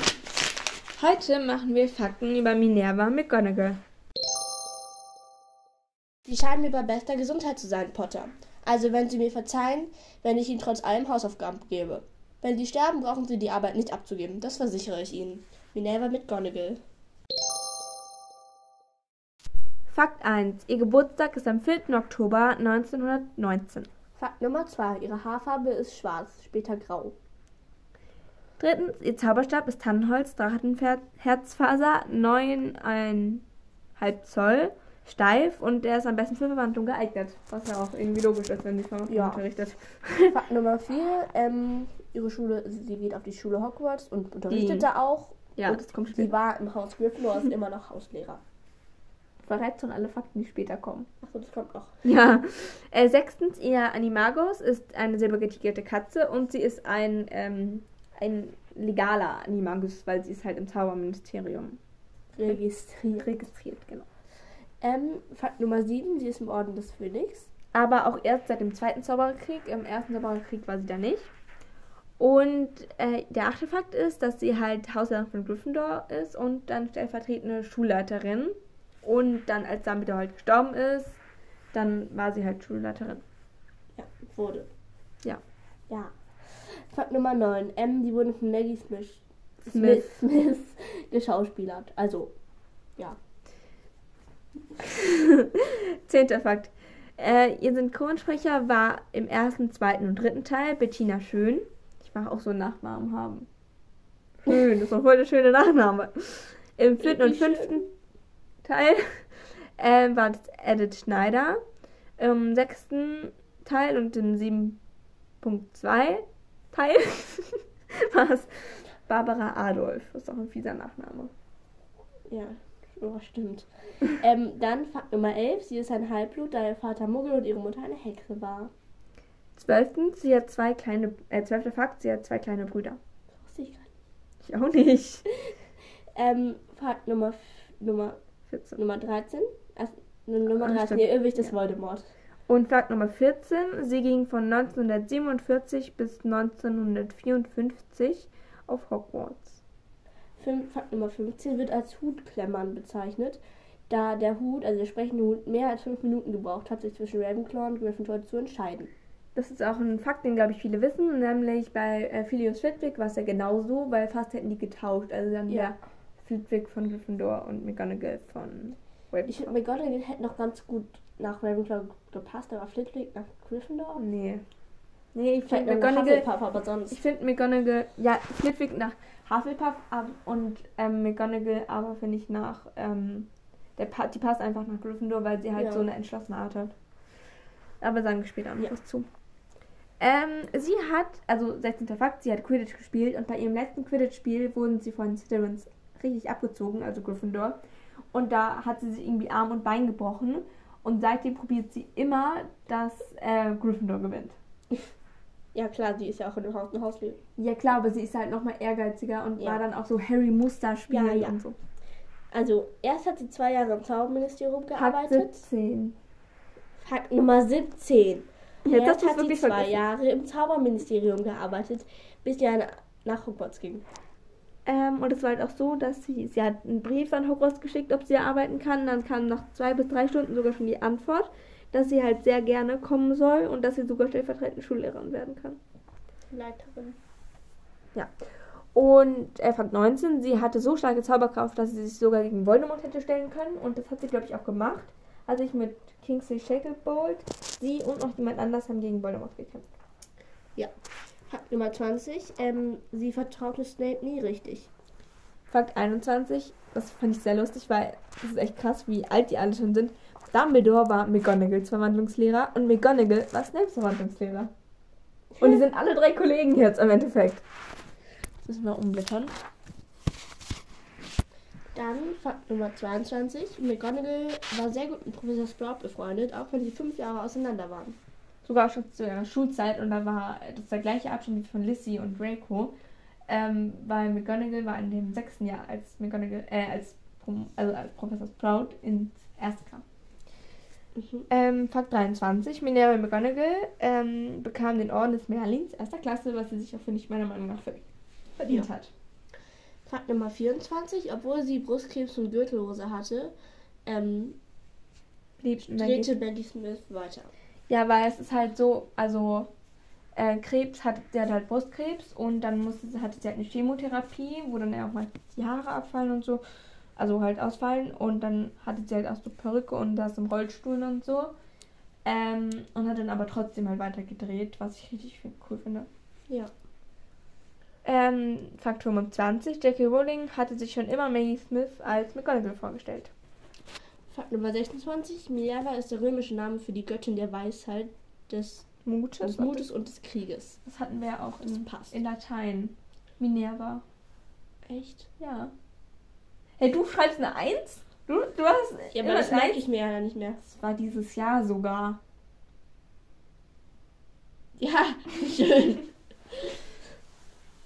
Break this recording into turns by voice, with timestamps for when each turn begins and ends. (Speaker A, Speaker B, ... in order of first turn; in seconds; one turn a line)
Speaker A: 0.9-3.8
Speaker B: 6.2-16.8
Speaker A: 19.9-23.9
Speaker B: 24.1-27.1
Speaker A: 28.6-33.5
Speaker A: 34.0-40.4
Speaker B: 39.1-39.4
Speaker B: 40.3-48.4
Speaker A: 44.5-44.9
Speaker A: 45.6-46.3
Speaker A: 49.4-51.1
Speaker B: 51.2-52.0
Speaker A: 52.0-61.8
Speaker B: 62.3-63.3
Speaker A: 63.1-64.1
Speaker B: 64.8-67.5
Speaker A: 67.7-71.3
Speaker A: 72.2-81.2
Speaker A: 81.7-83.2
Speaker B: 84.0-84.7
Speaker B: 85.9-92.3
Speaker A: 89.7-90.1
Speaker A: 94.9-103.5
Speaker A: 104.5-107.9
Speaker B: 107.0-107.8
Speaker A: 108.6-111.6
Speaker A: 112.2-114.8
Speaker A: 115.4-121.3
Speaker B: 122.3-128.7
Speaker A: 129.6-133.0
Speaker B: 133.4-133.9
Speaker A: 134.4-135.2
Speaker B: 136.2-138.2
Speaker A: 138.5-138.8
Speaker B: 138.8-142.1
Speaker A: 140.6-141.5
Speaker A: 142.5-149.6
Speaker B: 150.4-158.9
Speaker A: 159.3-169.6
Speaker B: 169.3-174.0
Speaker A: 173.9-174.4
Speaker A: 175.1-176.2
Speaker B: 175.4-177.0
Speaker A: 176.9-186.7
Speaker B: 185.6-185.9
Speaker A: 187.8-189.1
Speaker A: 190.0-197.6
Speaker A: 198.1-204.4
Speaker B: 205.5-207.2
Speaker A: 207.4-211.6
Speaker B: 210.9-211.4
Speaker B: 212.3-215.4
Speaker A: 214.7-216.0
Speaker B: 216.8-223.8
Speaker A: 218.7-219.8
Speaker A: 224.7-235.6
Speaker B: 236.3-237.0
Speaker A: 238.7-249.7
Speaker B: 251.3-254.7
Speaker A: 255.5-264.5
Speaker A: 265.4-267.4
Speaker A: 268.4-269.3
Speaker B: 271.7-278.0
Speaker A: 278.4-282.7
Speaker A: 283.3-289.8
Speaker B: 290.9-291.2
Speaker A: 291.3-297.8
Speaker A: 298.4-298.9
Speaker B: 299.9-303.3
Speaker B: 303.9-304.4
Speaker A: 305.4-306.1
Speaker B: 305.6-307.3
Speaker A: 307.7-309.5
Speaker A: 310.1-316.4
Speaker A: 317.0-321.3
Speaker A: 322.0-325.9
Speaker A: 327.8-333.1
Speaker B: 334.1-338.7
Speaker A: 338.8-339.6
Speaker B: 339.2-340.6
Speaker A: 340.6-343.8
Speaker B: 341.4-342.0
Speaker B: 344.7-345.1
Speaker A: 345.2-345.5
Speaker A: 346.6-349.6
Speaker B: 348.9-350.4
Speaker A: 350.4-352.0
Speaker B: 354.6-355.9